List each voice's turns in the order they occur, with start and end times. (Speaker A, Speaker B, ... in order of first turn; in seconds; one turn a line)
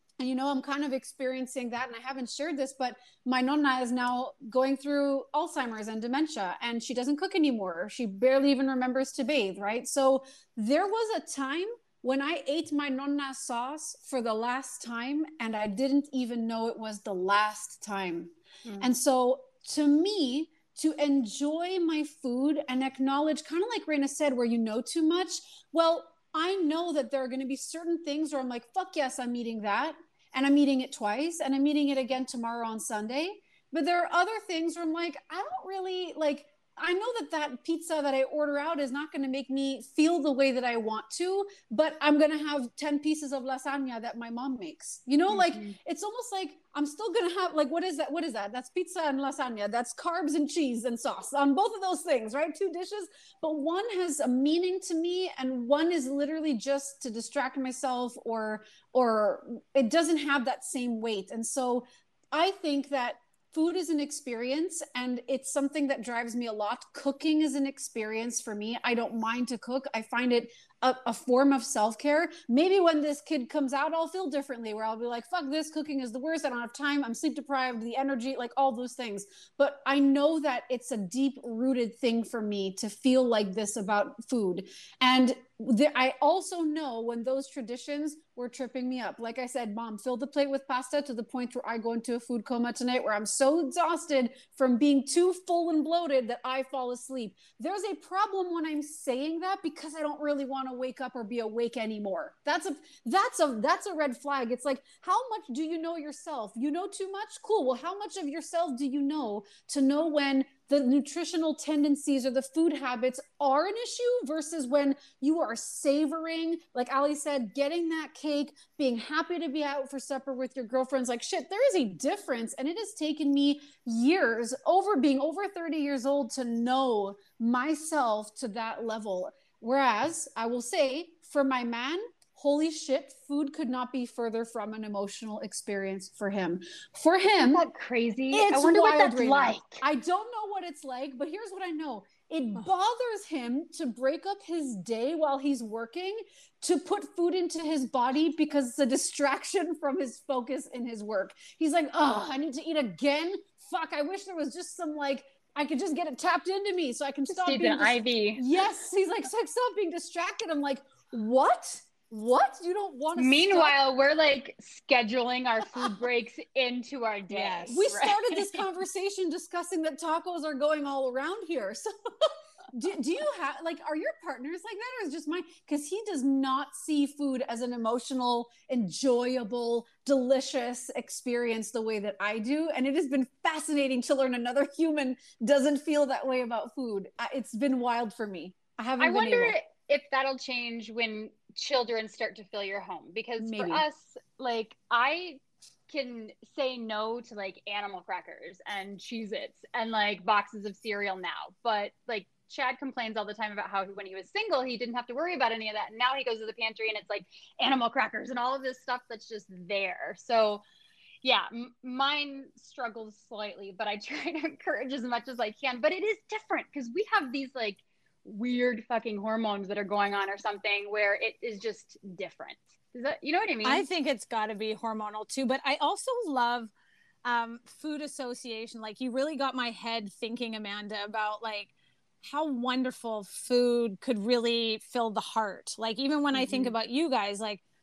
Speaker A: 0.2-137.6
Speaker B: 45.3-45.8
Speaker B: 137.4-139.8
Speaker A: 138.3-163.8
Speaker B: 157.3-158.4
Speaker B: 163.2-168.2
Speaker C: 167.3-168.5
Speaker A: 167.7-189.6
Speaker B: 189.0-210.6
Speaker A: 193.4-193.8
Speaker B: 211.2-223.9
Speaker C: 223.6-226.7
Speaker C: 227.2-231.7
Speaker C: 232.2-237.6
Speaker B: 236.4-236.7